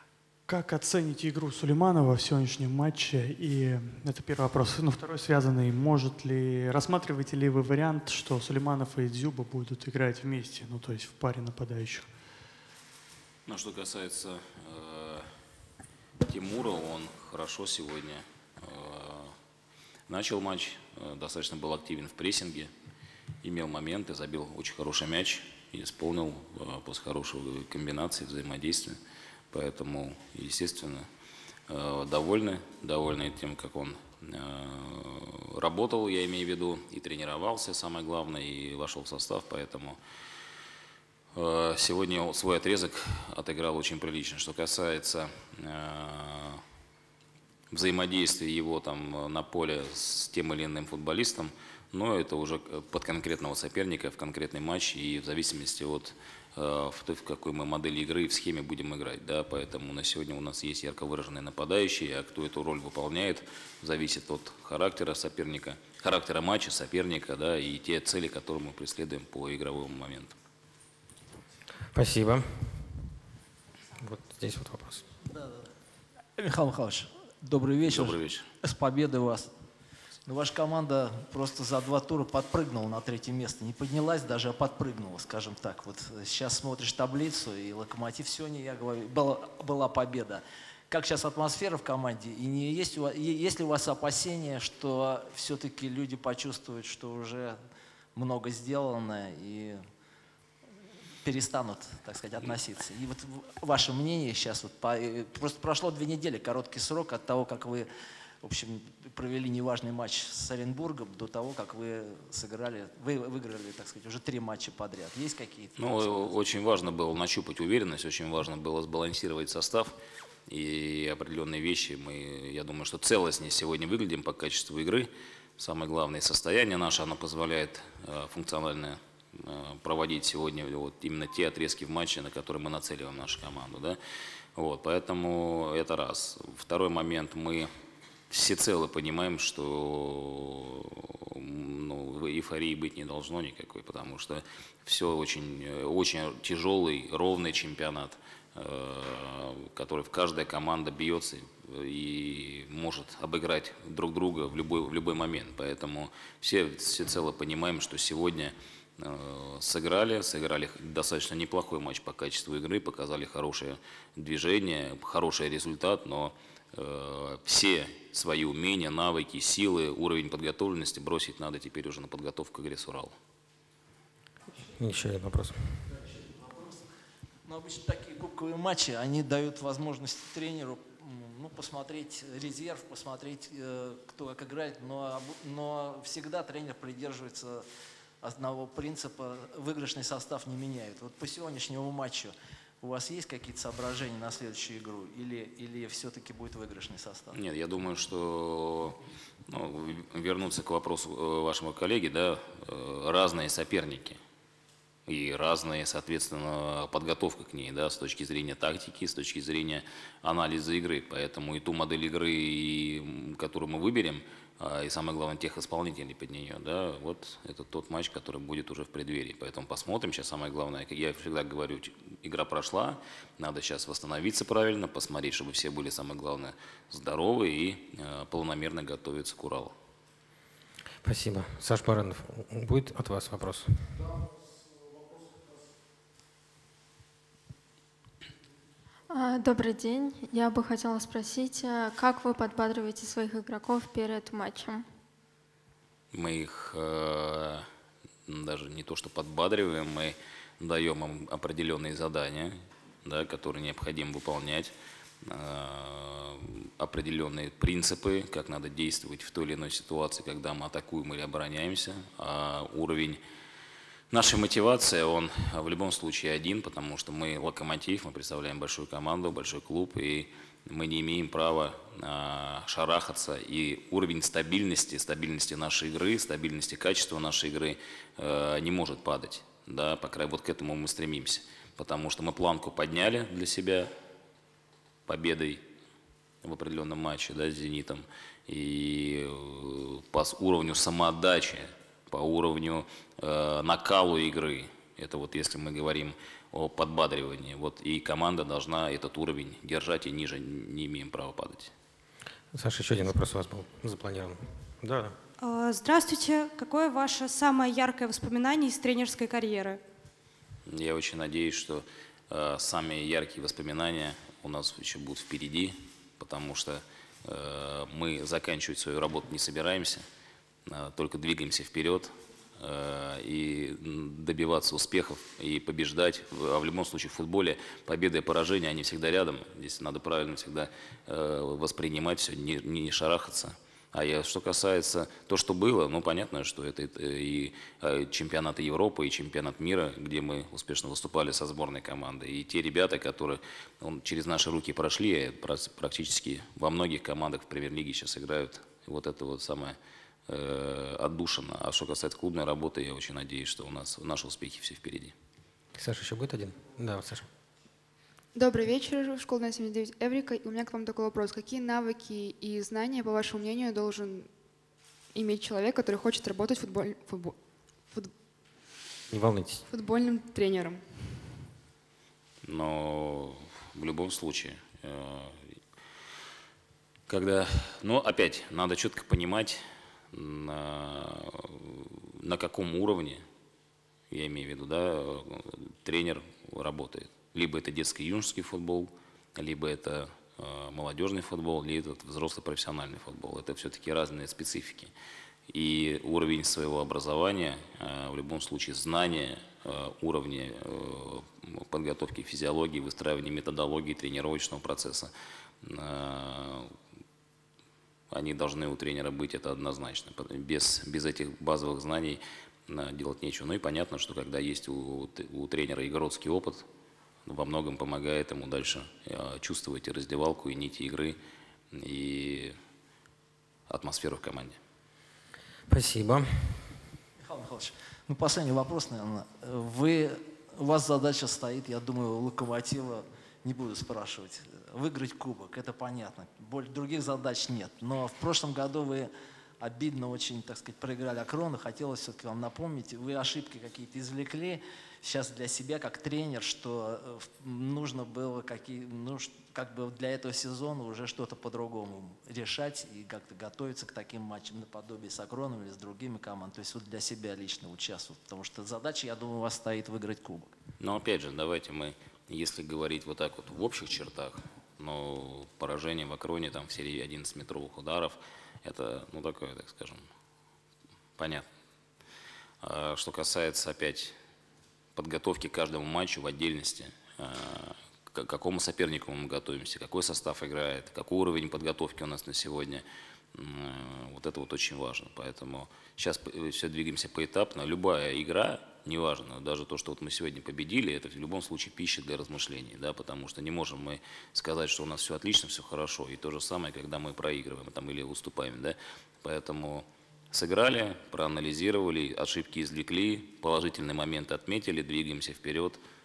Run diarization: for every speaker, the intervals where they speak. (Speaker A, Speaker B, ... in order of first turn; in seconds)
Speaker A: 0.5-12.1
Speaker B: 13.4-15.2, 16.2-19.3, 20.1-22.7, 23.4-28.9, 29.5-31.1, 31.7-40.0, 41.3-46.6, 47.7-70.3, 77.8-78.5, 115.8-120.0, 120.5-134.0, 134.6-137.7, 138.3-173.1, 197.3-204.2, 205.1-229.7, 246.1-247.6, 248.2-263.2, 264.1-283.9, 285.1-285.6, 286.4-301.7, 310.7-320.0, 320.6-349.8, 350.3-355.1, 372.4-375.4, 377.1-383.2, 384.1-394.9, 395.5-405.1, 405.6-406.7, 408.1-416.6, 417.2-421.2, 421.7-422.5, 423.7-424.6, 460.8-470.1, 471.2-471.5, 472.6-474.1, 474.9-505.8
Speaker C: 71.9-73.0, 74.0-75.0, 174.7-175.9, 231.0-234.1, 302.5-305.1, 355.7-357.2, 369.1-369.6, 425.7-426.7
Speaker D: 75.3-75.6, 76.3-79.5, 80.2-97.6, 98.1-99.8, 101.2-107.9, 108.4-116.3, 176.2-176.8, 177.4-187.7, 188.2-197.4, 427.2-460.5
Speaker E: 239.1-244.8
Speaker F: 305.4-309.8
Speaker G: 358.3-364.3, 365.1-367.3, 369.7-370.9